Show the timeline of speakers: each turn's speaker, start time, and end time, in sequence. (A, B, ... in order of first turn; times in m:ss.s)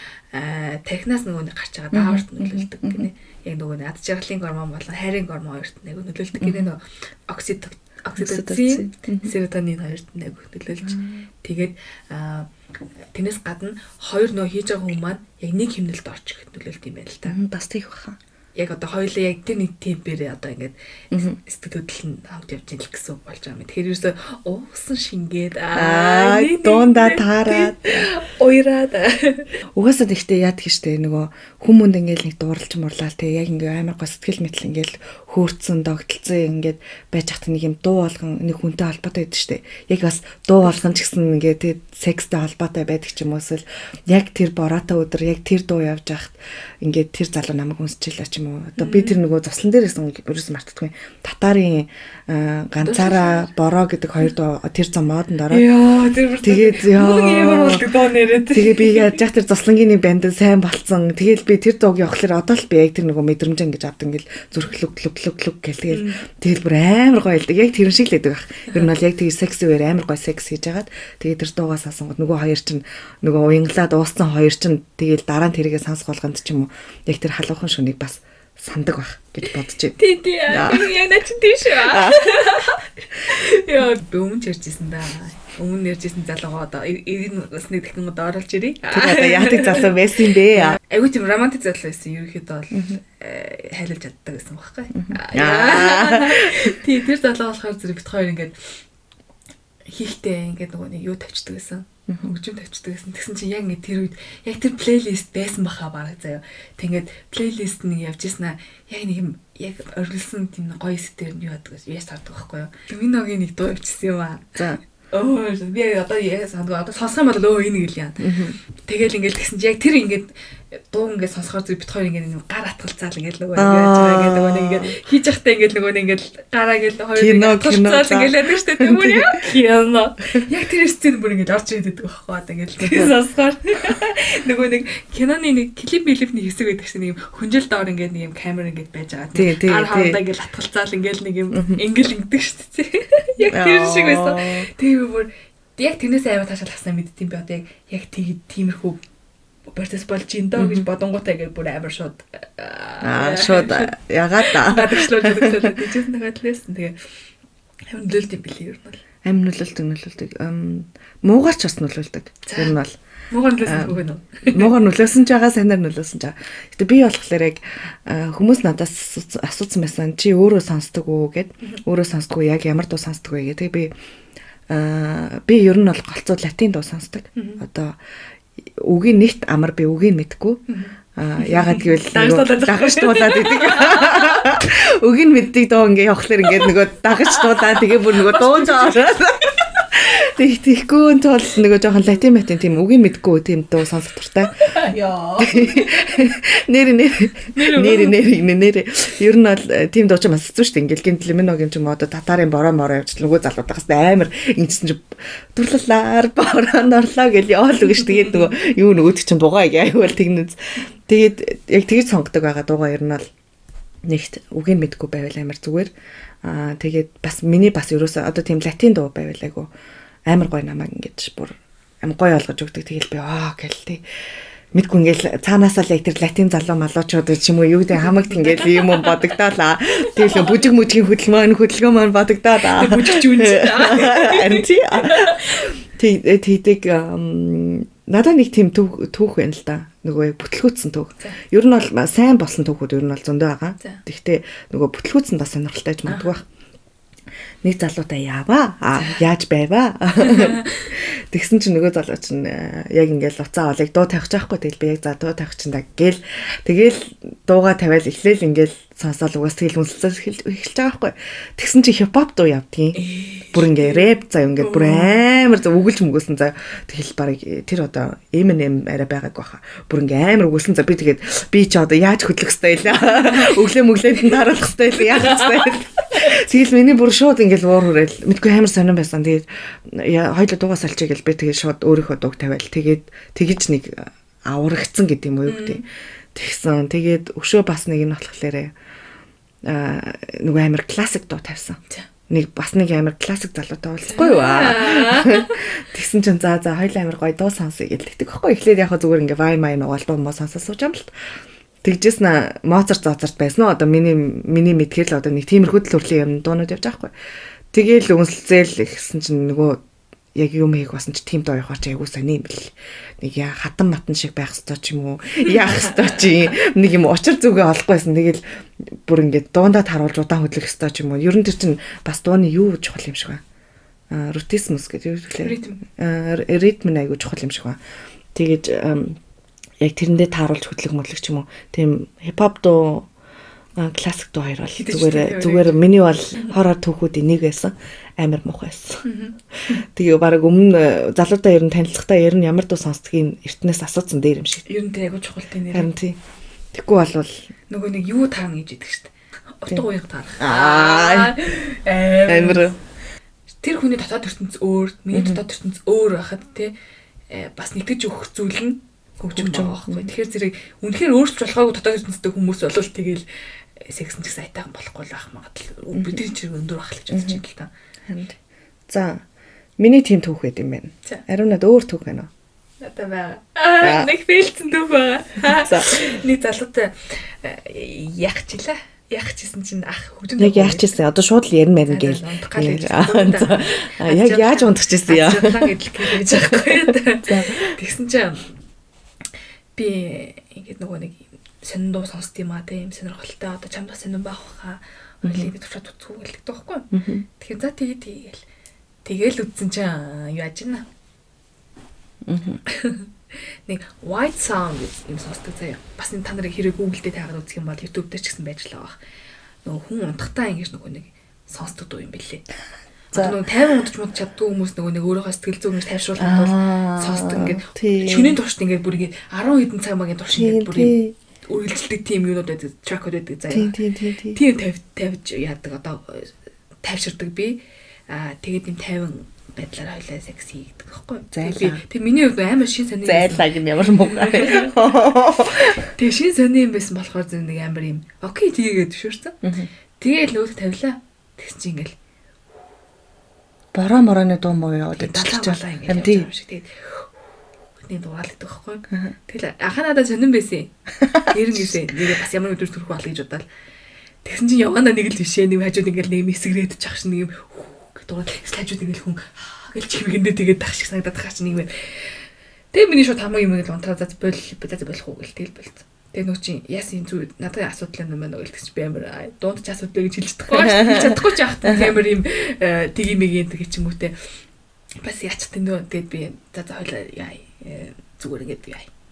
0:00.3-0:12.5 A
0:01.9-0:03.1 B
0:06.4-0:06.7 B
0:08.2-0:09.3 B
0:10.8-0:11.2 B
0:13.1-0:17.4 A
0:17.3-0:18.2 B
0:18.6-0:29.6 A
0:21.1-0:21.4 B
0:25.8-0:28.1 B
0:29.8-0:55.7 B
0:48.8-0:49.2 A
0:52.8-0:53.5 A
0:55.5-0:59.2 A
0:56.4-0:57.8 B
0:58.5-1:21.0 B
1:05.9-1:06.2 A
1:20.0-1:38.8 A
1:21.7-1:22.6 B
1:28.9-1:30.8 B
1:32.7-1:33.0 B
1:34.9-1:36.8 B
1:39.9-1:54.6 A
1:42.1-1:42.3 B
1:55.1-2:29.0 A
1:58.2-1:58.6 B
2:03.6-2:05.0 B
2:07.2-2:09.4 B
2:12.8-2:13.1 B
2:19.4-2:20.2 B
2:21.5-2:21.8 B
2:23.5-2:24.7 B
2:29.7-2:37.0 A
2:30.6-2:30.9 B
2:33.0-2:35.7 B
2:37.9-2:39.0 A
2:39.2-2:43.0 B
2:42.5-2:42.8 A
2:43.3-2:44.7 A
2:43.6-2:53.9 B
2:54.7-2:58.0 B
2:57.4-2:57.6 A
2:58.6-3:00.6 B
3:00.7-3:04.6 A
3:01.2-3:14.7 B
3:07.2-3:09.6 A
3:14.6-3:16.4 A
3:15.4-3:33.3 B
3:17.5-3:18.2 A
3:34.0-3:35.9 B
3:36.4-3:39.7 B
3:40.3-3:44.0 B
3:44.7-4:06.4 B
3:48.0-3:49.2 A
3:52.6-3:55.7 A
4:06.1-4:06.3 A
4:07.6-4:45.8 B
4:09.0-4:09.2 A
4:10.2-4:10.9 A
4:23.0-4:25.2 A
4:33.2-4:33.6 A
4:35.1-4:36.2 A
4:45.4-4:45.8 A
4:46.3-4:48.7 B
4:49.6-5:01.2 B
4:54.1-4:55.6 A
5:01.8-5:07.1 B
5:07.7-5:09.8 B
5:10.4-5:23.4 B
5:15.4-5:16.6 A
5:24.1-5:27.8 B
5:25.4-5:25.8 A
5:28.3-5:29.2 B
5:29.8-5:33.1 B
5:33.8-5:39.0 B
5:34.8-5:36.5 A
5:39.0-5:39.8 A
5:39.8-5:44.7 B
5:44.7-5:45.9 A
5:45.7-5:46.2 B
5:46.7-5:47.5 B
5:47.7-5:52.7 A
5:50.4-5:51.4 B
5:52.3-5:52.8 B
5:53.6-5:56.7 A
5:55.1-5:55.4 B
5:57.3-6:03.2 A
5:59.3-6:00.1 B
6:03.8-6:07.7 A
6:07.1-6:07.4 B
6:08.1-6:09.2 B
6:09.8-6:12.3 B
6:12.8-6:21.0 A
6:13.8-6:14.1 B
6:15.4-6:16.0 B
6:20.4-6:27.8 B
6:21.9-6:28.5 A
6:29.8-6:38.4 A
6:35.2-6:35.5 B
6:36.9-6:37.2 B
6:39.0-6:40.9 A
6:42.3-6:42.6 B
6:42.7-6:49.0 A
6:49.6-6:52.4 A
6:53.1-7:03.7 A
6:53.2-6:53.4 B
6:56.2-6:58.4 B
7:00.3-7:01.1 B
7:03.5-7:04.4 B
7:04.3-7:06.3 A
7:06.8-7:14.8 A
7:11.3-7:11.8 B
7:13.0-7:15.9 B
7:15.6-7:19.4 A
7:19.4-7:19.7 B
7:20.0-7:22.0 A
7:23.7-7:26.3 B
7:25.0-7:27.1 A
7:27.8-7:30.7 A
7:31.2-7:32.1 B
7:31.3-7:33.4 A
7:34.2-7:42.2 A
7:42.7-7:54.2 A
7:50.5-7:51.9 B
7:55.0-7:58.9 A